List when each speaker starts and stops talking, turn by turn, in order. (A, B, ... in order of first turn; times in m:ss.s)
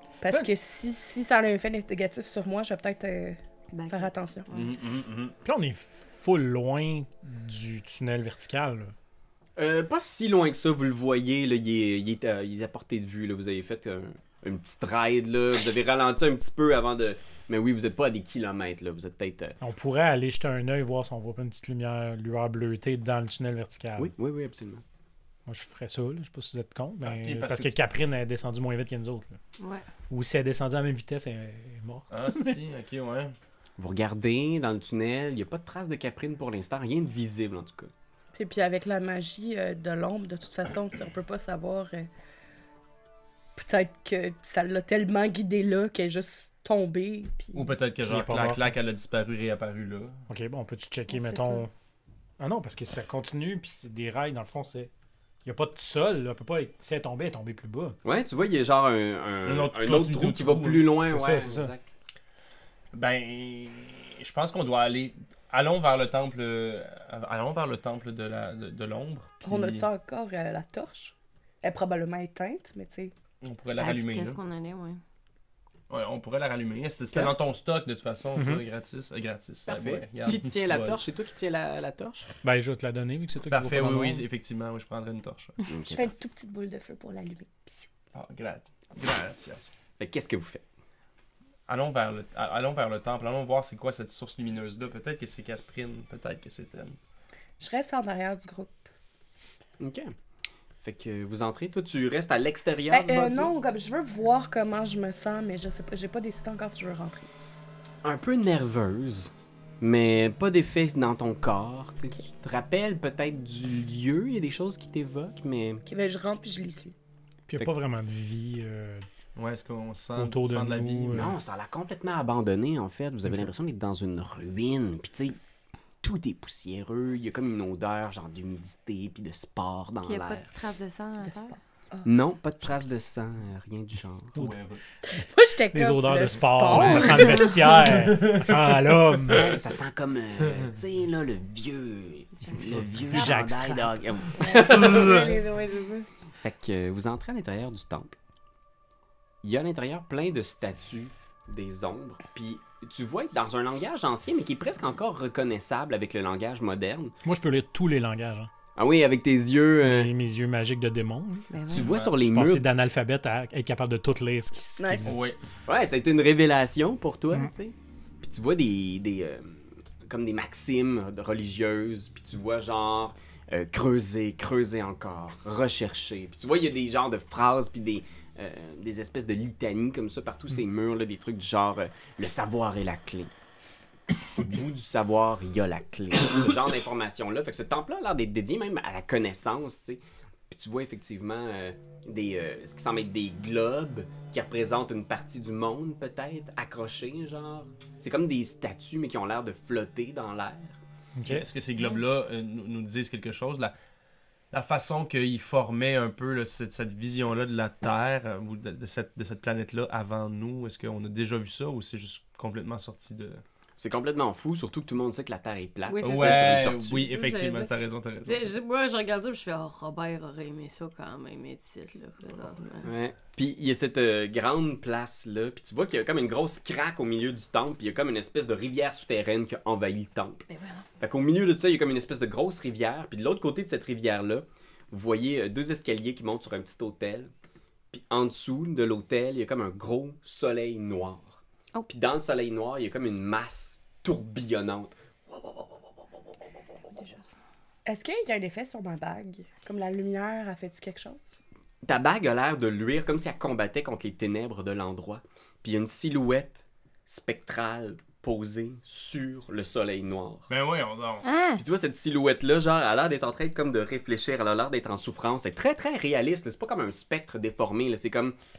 0:00.2-0:04.5 A
0:03.7-0:04.6 B
0:04.5-0:05.4 C
0:05.4-0:08.9 D
0:09.6-0:19.6 E
0:19.6-0:24.1 D
0:24.0-0:24.8 E
0:25.4-0:29.4 D
0:27.0-0:27.8 C
0:29.6-0:29.8 B
0:30.1-0:32.6 D
0:32.1-0:33.3 C
0:33.8-0:37.9 E
0:38.3-0:42.1 A
0:43.6-0:47.8 A
0:47.5-0:50.2 C
0:48.0-0:48.8 D
0:50.3-0:51.7 D
0:51.1-0:51.6 A
0:52.4-0:54.9 D
0:55.4-0:58.0 D
0:58.0-1:01.9 E
0:59.4-1:01.0 C
1:01.0-1:01.7 D
1:02.9-1:09.9 C
1:09.4-1:13.1 A
1:13.4-1:14.4 C
1:13.8-1:15.0 B
1:15.9-1:21.0 C
1:18.3-1:18.6 D
1:19.6-1:22.2 E
1:22.4-1:24.2 D
1:23.5-1:25.6 C
1:25.7-1:26.1 E
1:25.8-1:27.8 A
1:28.1-1:29.7 C
1:30.0-1:30.6 E
1:31.7-1:37.0 C
1:37.6-1:38.9 A
1:39.8-1:40.1 E
1:40.8-1:43.5 E
1:42.9-1:47.3 A
1:48.0-1:55.8 E
1:55.8-1:56.9 A
1:57.5-1:59.0 D
1:59.4-2:01.3 C
2:00.2-2:01.4 D
2:01.1-2:05.4 E
2:06.0-2:10.4 E
2:10.0-2:11.6 B
2:11.2-2:12.1 A
2:12.0-2:14.4 E
2:14.4-2:14.8 C
2:15.1-2:17.9 A
2:15.7-2:19.5 D
2:16.7-2:17.4 B
2:16.7-2:19.6 C
2:19.3-2:25.2 E
2:22.7-2:23.0 C
2:23.0-2:24.0 D
2:24.4-2:26.0 B
2:24.4-2:25.2 C
2:26.4-2:28.1 E
2:29.4-2:37.1 E
2:37.2-2:38.5 D
2:38.8-2:40.1 E
2:39.8-2:45.2 D
2:41.5-2:41.9 B
2:41.7-2:42.6 E
2:44.8-2:45.2 A
2:45.0-2:45.4 C
2:45.6-3:03.3 E
3:04.4-3:20.8 E
3:21.2-3:21.5 D
3:21.2-3:23.7 C
3:24.5-3:33.4 C
3:33.8-3:37.1 E
3:35.9-3:37.7 B
3:36.0-3:38.5 C
3:38.2-3:42.9 B
3:42.8-3:50.4 E
3:50.5-3:50.8 B
3:51.0-3:57.3 E
3:57.9-4:05.8 E
4:07.8-4:11.3 A
4:11.8-4:20.5 E
4:20.5-4:21.2 C
4:21.2-4:21.6 B
4:21.6-4:28.4 E